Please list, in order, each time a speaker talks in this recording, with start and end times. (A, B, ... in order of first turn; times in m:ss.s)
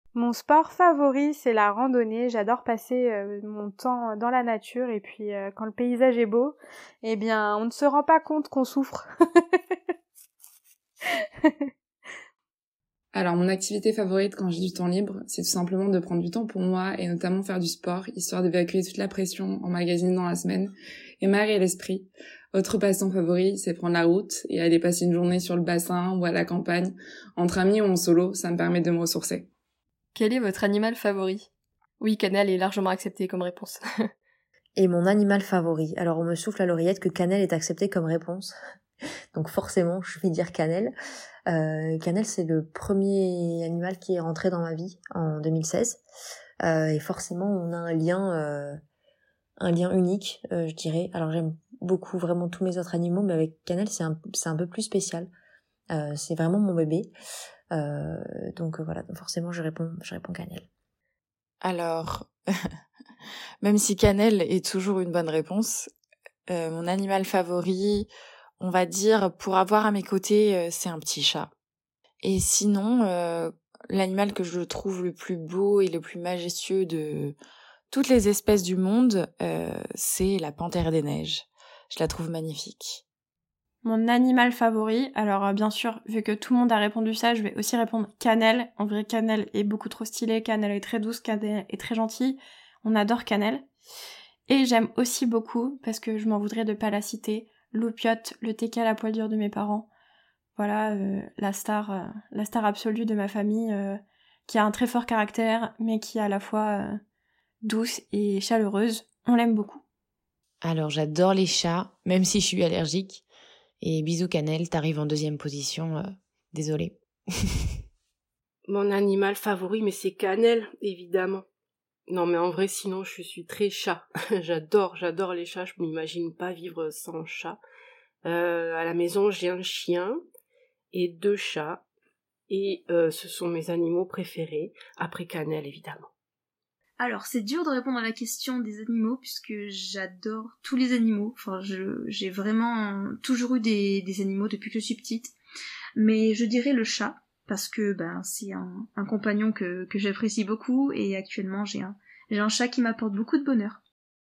0:00.1-0:09.6 A
0:11.1-0:11.7 A
0:13.1-0:29.5 B
0:30.1-0:31.5 C
0:32.0-0:33.8 C
0:34.8-0:38.5 D
0:39.3-0:40.9 D
0:41.5-0:46.0 D
0:46.6-0:48.8 D
0:49.6-0:55.3 D
0:55.9-0:57.1 D
0:57.7-1:00.7 D
1:01.6-1:02.3 E
1:03.6-1:05.9 E
1:06.5-1:08.1 E
1:08.6-1:11.5 E
1:12.2-1:17.3 E
1:17.9-1:23.0 E
1:23.8-1:33.7 F
1:34.5-1:39.9 F
1:40.6-1:47.0 F
1:47.6-1:49.8 F
1:50.6-1:53.2 G
1:53.8-1:57.5 G
1:58.7-2:01.4 H
2:02.1-2:07.6 H
2:08.2-2:10.2 H
2:10.9-2:11.8 H
2:12.5-2:16.1 H
2:17.0-2:25.3 I
2:26.0-2:33.8 I